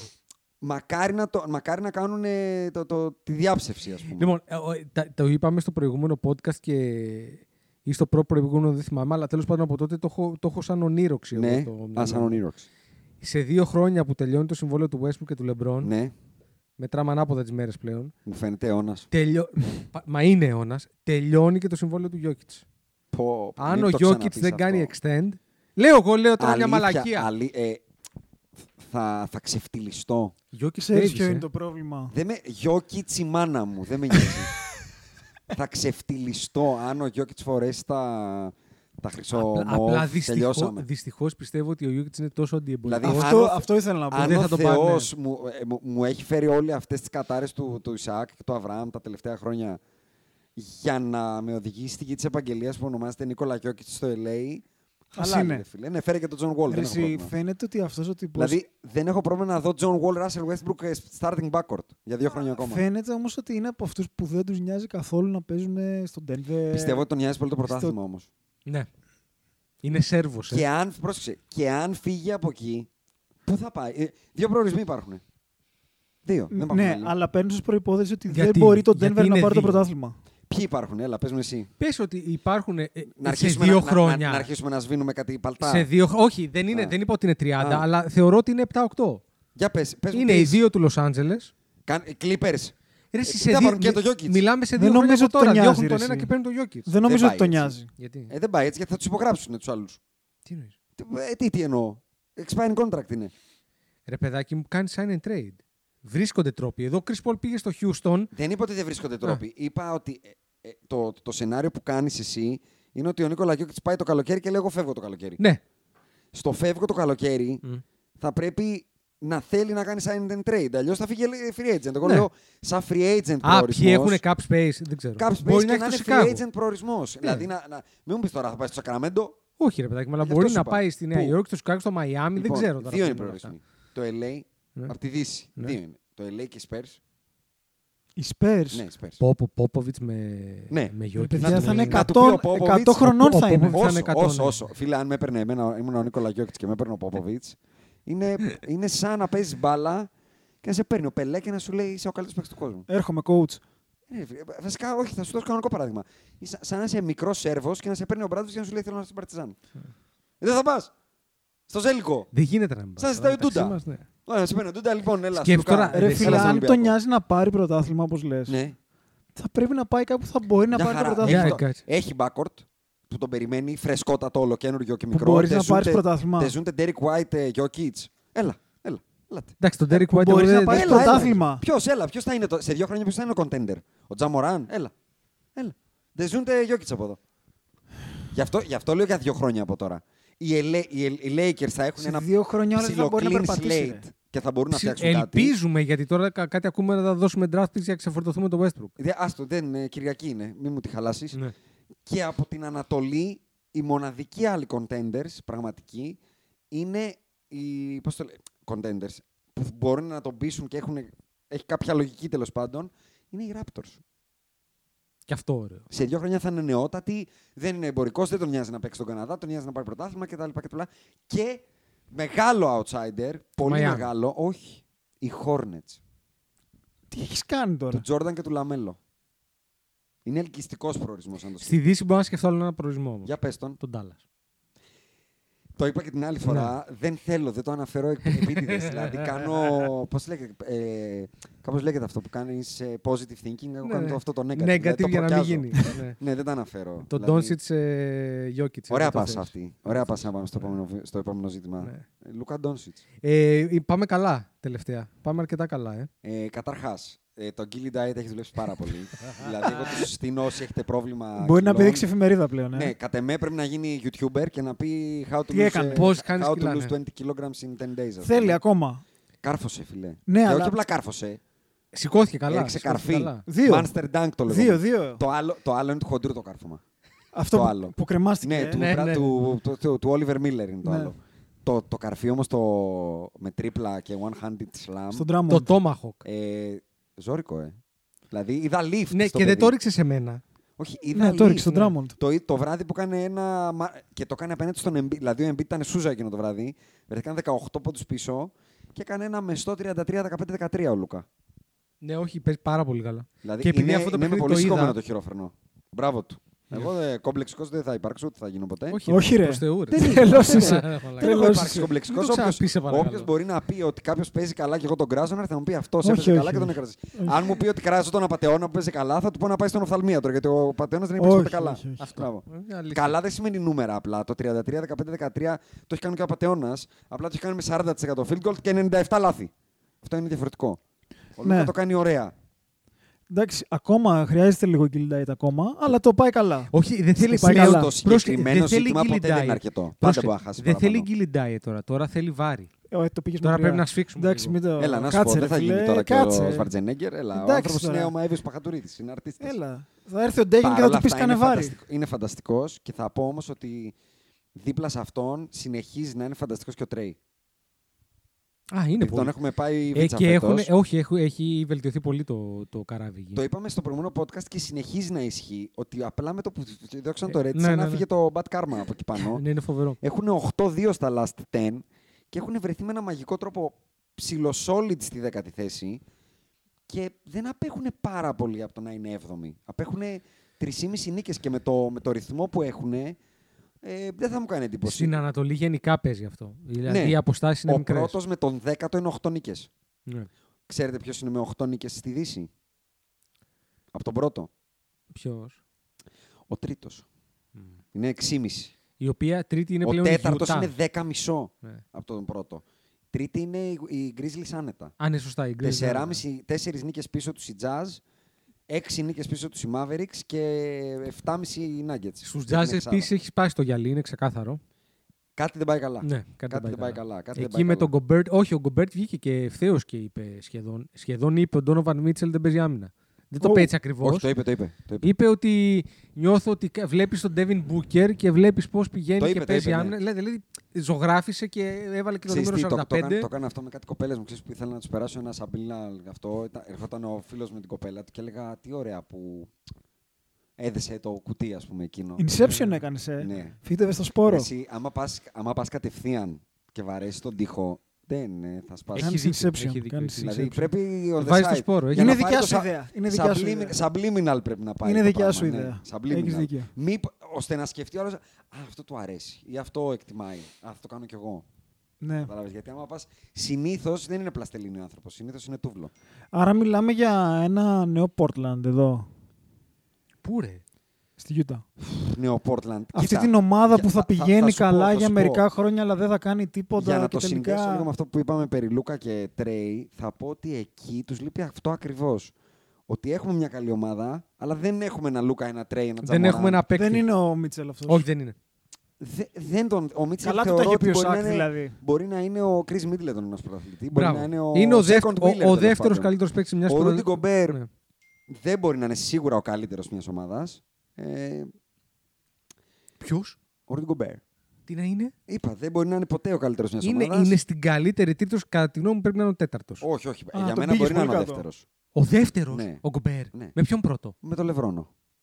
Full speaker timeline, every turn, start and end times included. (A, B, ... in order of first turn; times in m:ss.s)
0:00.6-0:04.3 A
0:04.1-0:12.4 B
0:11.3-0:12.7 A
0:13.2-0:15.9 B
0:15.8-0:16.1 A
0:16.8-0:18.1 B
0:18.2-0:19.1 A
0:19.1-0:22.6 B
0:23.1-0:24.9 A
0:23.6-0:27.3 B
0:26.4-0:27.8 A
0:28.8-0:30.3 A
0:30.5-0:31.5 B
0:30.8-0:32.1 C
0:32.1-0:34.5 A
0:35.5-0:40.8 A
0:39.3-0:43.4 B
0:42.8-0:49.8 A
0:43.0-0:44.4 C
0:44.2-0:45.1 B
0:50.6-0:57.3 A
0:55.2-0:55.6 C
0:56.7-0:58.6 C
0:58.4-1:02.8 A
1:02.6-1:07.0 C
1:06.7-1:08.3 A
1:07.7-1:08.0 C
1:09.8-1:10.6 B
1:10.5-1:12.9 A
1:13.4-1:15.2 A
1:16.2-1:17.1 A
1:16.5-1:20.2 C
1:18.3-1:19.8 B
1:20.5-1:21.7 A
1:21.8-1:24.5 B
1:23.1-1:25.9 A
1:25.6-1:29.2 B
1:26.7-1:27.0 A
1:27.6-1:27.8 A
1:29.6-1:30.6 A
1:30.1-1:31.5 B
1:31.9-1:34.4 A
1:33.1-1:36.9 B
1:34.8-1:36.3 C
1:36.8-1:37.9 C
1:37.0-1:37.8 A
1:38.0-1:38.3 B
1:38.3-1:40.0 A
1:40.4-1:40.7 B
1:41.0-1:43.3 A
1:44.1-1:48.3 B
1:48.3-1:55.4 A
1:56.3-1:57.6 A
1:58.2-2:04.2 A
2:03.4-2:06.4 B
2:05.2-2:09.4 A
2:07.2-2:07.5 B
2:09.6-2:13.5 B
2:10.2-2:11.4 A
2:12.4-2:17.0 A
2:18.2-2:18.8 C
2:18.7-2:19.2 A
2:19.2-2:22.0 B
2:20.7-2:30.1 A
2:21.2-2:23.8 C
2:23.0-2:24.6 B
2:30.6-2:32.8 A
2:32.9-2:33.6 C
2:34.1-2:39.6 A
2:40.4-2:40.9 A
2:41.7-2:42.3 A
2:42.3-2:44.0 B
2:43.0-2:46.9 A
2:45.3-2:46.6 B
2:45.9-2:48.6 C
2:48.5-2:48.8 A
2:49.4-2:51.6 C
2:50.7-2:59.6 A
2:51.2-2:51.8 B
2:55.1-2:56.5 C
2:59.6-3:01.3 B
2:59.9-3:01.6 C
3:00.7-3:04.9 A
3:05.6-3:07.2 A
3:08.3-3:15.5 A
3:12.0-3:14.1 C
3:14.7-3:18.9 B
3:19.0-3:21.4 A
3:22.0-3:26.2 A
3:26.7-3:34.0 A
3:35.3-3:35.8 B
3:35.9-3:46.0 A
3:43.6-3:44.1 B
3:47.1-3:48.0 C
3:47.9-3:49.0 A
3:50.2-3:51.8 A
3:51.6-3:54.2 B
3:53.2-3:53.8 A
3:55.8-4:07.6 A
3:56.4-3:56.7 B
3:58.3-3:59.2 B
4:03.8-4:06.2 B
4:07.0-4:10.3 B
4:08.9-4:13.0 A
4:13.2-4:16.1 B
4:16.2-4:22.0 A
4:19.7-4:20.0 B
4:21.4-4:22.9 C
4:22.7-4:28.6 A
4:25.5-4:26.0 C
4:25.9-4:26.9 B
4:28.2-4:29.0 C
4:29.4-4:31.4 A
4:30.3-4:30.8 C
4:31.9-4:33.4 B
4:32.5-4:36.8 A
4:33.4-4:33.9 C
4:34.5-4:35.2 C
4:37.3-4:38.8 C
4:37.5-4:45.3 A
4:38.8-4:39.3 B
4:40.8-4:41.1 C
4:45.1-4:45.7 C
4:45.5-4:46.2 B
4:46.2-4:47.8 A
4:48.3-4:49.7 A
4:49.1-4:50.4 B
4:50.8-5:01.3 A
4:51.1-4:52.2 C
4:51.7-4:51.9 B
5:02.0-5:05.0 B
5:03.4-5:09.0 A
5:08.9-5:13.3 B
5:09.1-5:11.9 C
5:09.9-5:29.5 A
5:16.0-5:17.5 C
5:21.2-5:22.0 C
5:22.0-5:23.2 B
5:30.0-5:30.8 A
5:31.4-5:32.3 A
5:31.4-5:31.7 C
5:33.3-5:36.7 C
5:36.7-5:42.7 B
5:37.2-5:41.1 A
5:37.2-5:37.9 C
5:42.9-5:46.7 C
5:43.4-5:44.6 B
5:44.8-5:49.6 A
5:47.3-5:48.1 C
5:49.4-5:51.8 C
5:50.6-5:53.9 A
5:54.5-5:57.2 A
5:58.7-5:59.3 B
5:59.0-6:00.7 A
5:59.9-6:03.4 B
6:03.3-6:09.4 A
6:07.3-6:08.0 B
6:09.1-6:10.0 B
6:10.0-6:16.0 A
6:16.9-6:23.2 A
6:23.8-6:25.2 A
6:24.8-6:28.2 B
6:26.8-6:29.7 A
6:30.7-6:32.5 A
6:33.9-6:34.5 A
6:35.1-6:35.6 B
6:36.5-6:37.0 A
6:37.9-6:38.7 A
6:39.0-6:40.7 B
6:39.8-6:44.9 A
6:45.0-6:46.2 B
6:45.6-6:48.0 A
6:48.7-6:53.1 A
6:52.2-6:54.6 B
6:55.4-6:57.9 A
6:56.0-7:04.3 B
7:03.4-7:03.7 C
7:04.0-7:05.1 A
7:05.0-7:13.3 B
7:09.2-7:09.9 A
7:12.2-7:19.5 A
7:20.6-7:22.2 A
7:22.2-7:24.5 C
7:22.4-7:22.8 B
7:23.2-7:23.5 A
7:24.2-7:29.1 A
7:28.9-7:32.2 B
7:29.0-7:30.3 C
7:30.2-7:41.4 A
7:31.9-7:33.8 C
7:34.8-7:36.7 C
7:42.0-7:42.3 C
7:42.2-7:45.9 A
7:46.3-7:49.1 C
7:50.2-7:50.6 B
7:51.2-7:51.6 C
7:51.8-7:55.4 A
7:52.9-7:57.9 C
7:56.8-8:02.3 A
8:02.9-8:06.6 A
8:06.0-8:07.1 B
8:06.7-8:08.0 C
8:07.9-8:08.4 B
8:09.0-8:16.1 A
8:10.2-8:11.8 C
8:13.9-8:17.7 B
8:16.6-8:17.6 A
8:18.3-8:21.5 A
8:23.0-8:23.4 B
8:23.7-8:24.2 A
8:24.7-8:25.1 B
8:25.3-8:27.4 A
8:26.8-8:29.8 B
8:29.8-8:31.6 A
8:30.3-8:31.4 C
8:31.9-8:34.1 B
8:32.5-8:32.8 A
8:34.2-8:34.9 A